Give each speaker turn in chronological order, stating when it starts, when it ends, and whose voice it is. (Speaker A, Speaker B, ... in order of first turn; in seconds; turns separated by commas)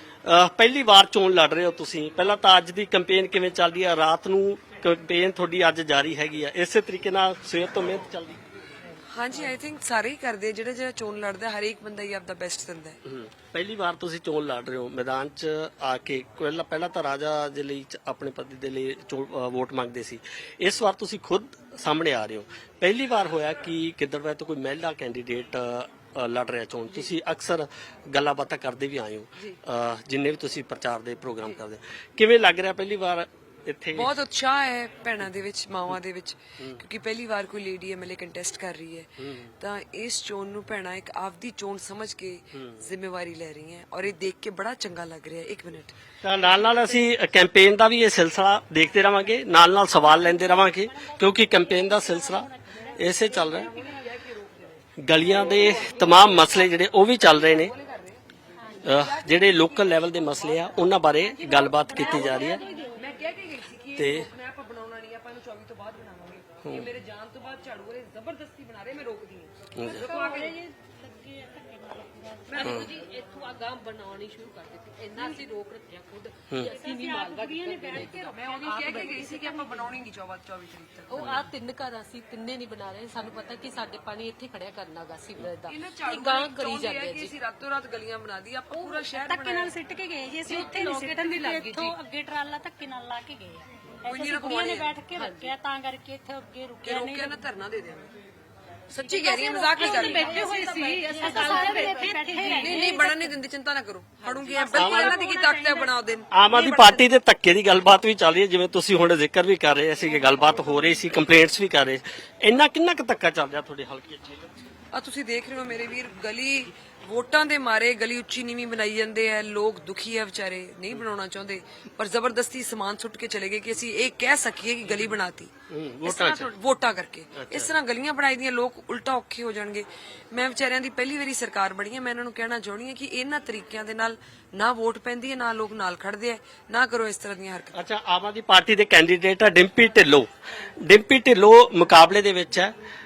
Speaker A: 0.2-8.4, Speaker B: 9.1-13.0, Speaker A: 13.0-34.1, Speaker B: 33.9-46.0, Speaker A: 39.2-39.5, Speaker A: 42.5-42.8, Speaker A: 46.2-53.7, Speaker C: 50.9-53.0, Speaker B: 53.5-54.8, Speaker A: 55.0-57.7, Speaker B: 57.5-58.2, Speaker A: 58.8-62.6, Speaker B: 58.8-59.9, Speaker C: 61.6-63.0, Speaker B: 62.6-70.5, Speaker A: 64.0-64.3, Speaker A: 66.6-66.9, Speaker A: 69.8-70.0, Speaker C: 69.9-72.7, Speaker D: 70.1-70.5, Speaker D: 72.5-79.1, Speaker B: 72.6-72.9, Speaker B: 75.2-75.4, Speaker C: 76.7-79.8, Speaker B: 78.1-81.5, Speaker D: 81.1-87.3, Speaker A: 81.2-81.5, Speaker B: 85.7-89.8, Speaker C: 88.7-97.4, Speaker D: 90.5-92.0, Speaker B: 94.0-95.0, Speaker D: 95.1-95.5, Speaker B: 96.8-98.1, Speaker B: 98.9-101.8, Speaker C: 99.1-103.2, Speaker D: 99.8-102.7, Speaker B: 102.4-107.0, Speaker C: 104.5-105.9, Speaker A: 104.7-105.2, Speaker A: 106.3-114.4, Speaker B: 114.9-125.5, Speaker A: 125.7-126.5, Speaker B: 126.0-137.8, Speaker A: 127.3-127.7, Speaker A: 137.7-142.7